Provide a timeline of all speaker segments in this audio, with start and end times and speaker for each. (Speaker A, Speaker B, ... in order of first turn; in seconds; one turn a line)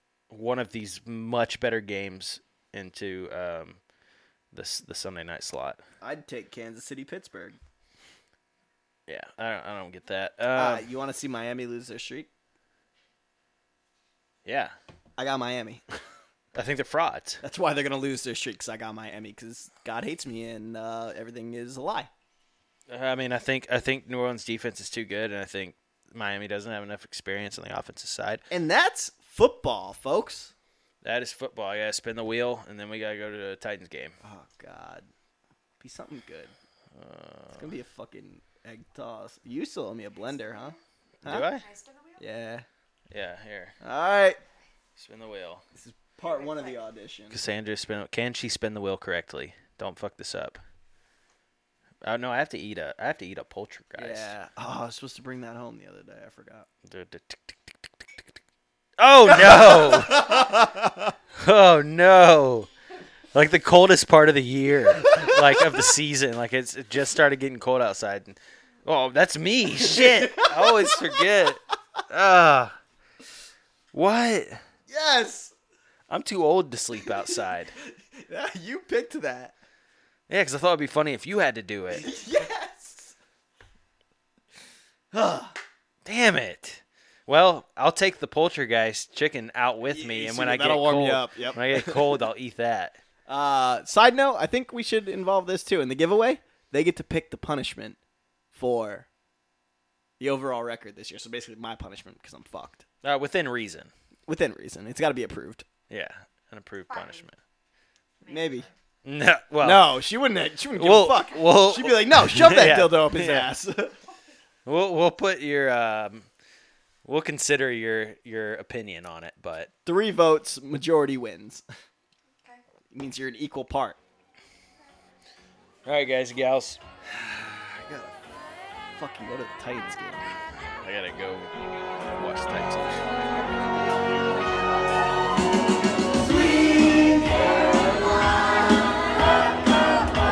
Speaker A: 0.3-3.8
Speaker A: 4.5-5.8
Speaker B: 6.0-7.6
Speaker A: 9.1-10.8
Speaker B: 10.5-12.3
Speaker A: 14.4-14.7
Speaker B: 15.2-15.8
Speaker A: 16.5-17.4
Speaker B: 17.4-22.1
Speaker A: 22.9-28.4
Speaker B: 28.5-30.5
Speaker A: 31.0-34.1
Speaker B: 34.2-35.1
Speaker B: 35.8-36.5
Speaker A: 36.9-37.7
Speaker B: 37.5-41.5
Speaker A: 41.2-41.6
Speaker C: 41.3-42.2
Speaker B: 42.2-42.6
Speaker A: 43.1-43.7
Speaker B: 43.8-44.4
Speaker A: 45.0-45.6
Speaker B: 45.7-47.4
Speaker C: 46.2-46.9
Speaker A: 47.3-50.6
Speaker A: 52.0-54.3
Speaker B: 54.0-56.7
Speaker A: 56.9-58.3
Speaker A: 59.0-60.6
Speaker B: 59.3-61.1
Speaker A: 61.4-62.7
Speaker A: 63.3-72.7
Speaker B: 65.1-65.4
Speaker B: 69.8-71.2
Speaker A: 73.9-74.6
Speaker B: 74.9-75.5
Speaker A: 76.1-77.7
Speaker B: 78.2-79.5
Speaker A: 80.3-82.1
Speaker B: 81.9-83.2
Speaker B: 85.1-85.5
Speaker A: 86.0-93.0
Speaker B: 89.9-92.2
Speaker B: 93.3-98.0
Speaker B: 98.5-99.1
Speaker B: 100.2-102.8
Speaker A: 103.0-103.9
Speaker B: 104.3-105.7
Speaker A: 105.9-107.3
Speaker C: 106.9-107.2
Speaker C: 108.2-108.7
Speaker B: 108.3-108.7
Speaker A: 109.0-110.0
Speaker B: 109.6-114.0
Speaker A: 110.7-113.5
Speaker A: 114.7-116.3
Speaker A: 117.0-119.7
Speaker B: 119.8-121.6
Speaker B: 122.9-124.0
Speaker A: 125.8-126.8
Speaker B: 127.1-128.2
Speaker B: 128.9-130.2
Speaker A: 130.8-133.1
Speaker B: 136.1-138.0
Speaker B: 139.2-140.0